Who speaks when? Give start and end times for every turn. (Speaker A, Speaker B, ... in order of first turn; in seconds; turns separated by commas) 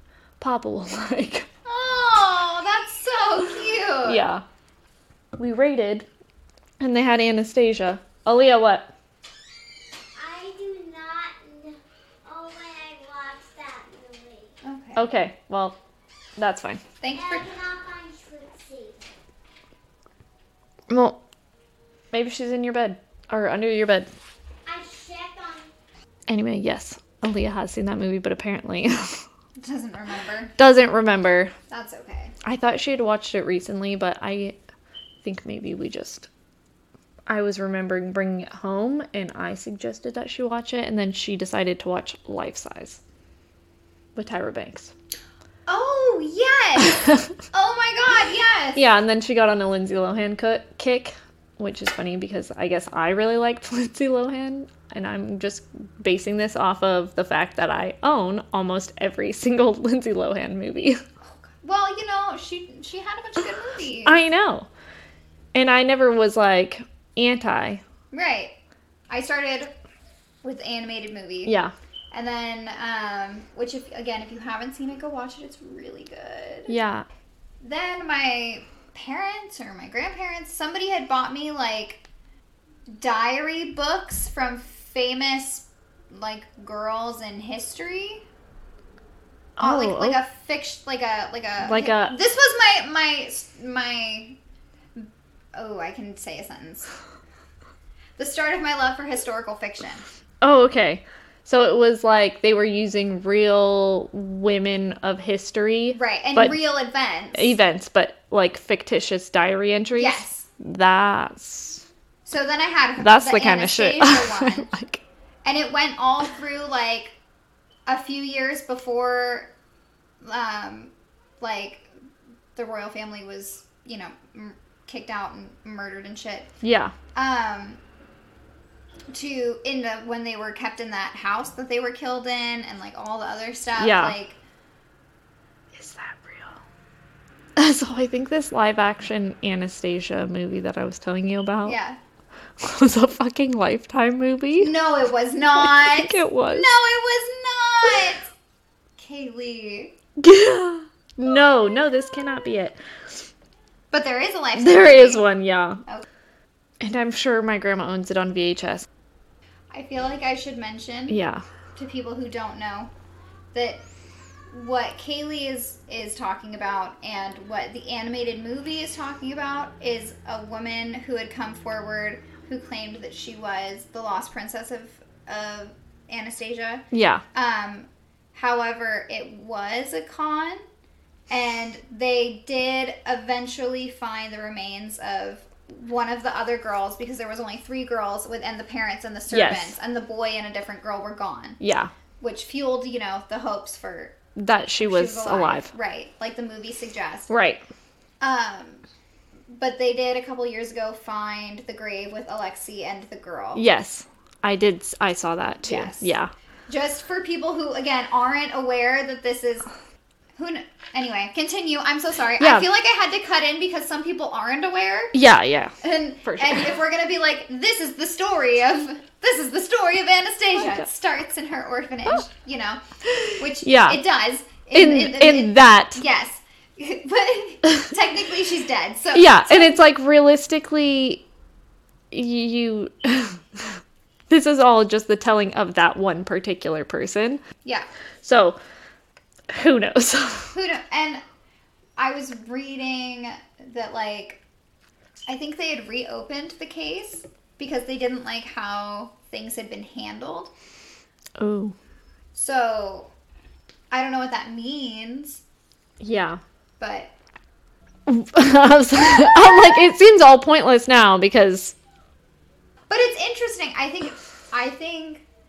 Speaker A: 0.4-1.5, Speaker B: 1.6-4.2, Speaker A: 4.0-4.4, Speaker A: 5.4-6.1, Speaker A: 6.8-8.9, Speaker C: 10.2-14.5, Speaker B: 14.6-15.1, Speaker A: 14.9-15.8, Speaker A: 16.4-16.8, Speaker B: 17.0-17.5, Speaker C: 17.1-19.0, Speaker A: 20.9-21.2, Speaker A: 22.1-24.1, Speaker C: 24.6-25.7, Speaker A: 26.3-29.2, Speaker B: 29.6-30.5, Speaker A: 30.6-31.5, Speaker B: 31.7-32.3, Speaker A: 32.4-34.5, Speaker A: 35.2-36.3, Speaker A: 37.3-43.0, Speaker A: 44.1-44.9, Speaker B: 45.7-48.8, Speaker A: 46.8-47.3, Speaker A: 48.8-61.0, Speaker B: 61.2-64.2, Speaker A: 64.0-64.7, Speaker A: 65.5-67.8, Speaker B: 68.1-68.5, Speaker B: 69.1-69.7, Speaker B: 70.4-71.5, Speaker A: 71.5-71.7, Speaker B: 72.1-76.8, Speaker A: 76.7-77.1, Speaker B: 77.6-82.0, Speaker B: 82.9-88.2, Speaker A: 89.6-90.2, Speaker B: 89.6-94.4, Speaker A: 91.6-92.1, Speaker B: 95.0-96.9, Speaker B: 98.2-100.0, Speaker A: 100.4-106.6, Speaker B: 105.9-107.5, Speaker A: 107.3-111.8, Speaker B: 110.0-110.5, Speaker B: 112.2-114.7, Speaker A: 113.0-115.0, Speaker B: 115.4-117.1, Speaker B: 117.9-119.5, Speaker B: 120.2-121.9, Speaker B: 122.5-126.5, Speaker A: 126.6-126.9, Speaker B: 127.1-127.8, Speaker B: 129.1-134.4, Speaker A: 133.8-134.1, Speaker A: 135.7-136.6, Speaker A: 137.6-141.8, Speaker B: 141.6-142.0, Speaker A: 142.6-144.7, Speaker B: 144.6-148.2, Speaker A: 145.6-146.7, Speaker B: 149.0-149.9, Speaker A: 150.2-152.8, Speaker B: 153.9-155.2, Speaker A: 154.6-155.8, Speaker A: 156.8-158.9, Speaker B: 159.7-161.2, Speaker A: 161.1-161.4, Speaker B: 161.8-162.9, Speaker B: 163.5-163.8, Speaker B: 164.5-180.6, Speaker A: 176.9-177.2, Speaker B: 181.3-191.6, Speaker A: 189.3-189.8, Speaker A: 191.6-191.9, Speaker B: 192.2-194.1, Speaker A: 194.3-195.7, Speaker B: 194.8-197.3, Speaker A: 197.3-197.6, Speaker B: 198.2-198.8, Speaker B: 199.5-203.6, Speaker A: 203.6-206.3, Speaker B: 205.6-206.1, Speaker B: 206.7-209.7, Speaker B: 210.3-215.1, Speaker A: 212.4-212.7, Speaker A: 215.1-216.7, Speaker B: 215.8-222.8, Speaker A: 223.1-224.0, Speaker B: 223.3-229.8, Speaker A: 224.7-226.0, Speaker A: 229.1-231.2, Speaker A: 232.1-237.4, Speaker A: 238.2-238.6, Speaker A: 239.5-240.5, Speaker B: 240.5-241.2, Speaker B: 242.0-244.4, Speaker B: 245.3-250.5, Speaker A: 251.4-251.8, Speaker B: 252.3-253.1, Speaker B: 253.9-255.4, Speaker A: 256.0-256.4, Speaker B: 256.8-257.1, Speaker A: 258.1-261.7, Speaker B: 259.1-259.5, Speaker B: 262.9-265.2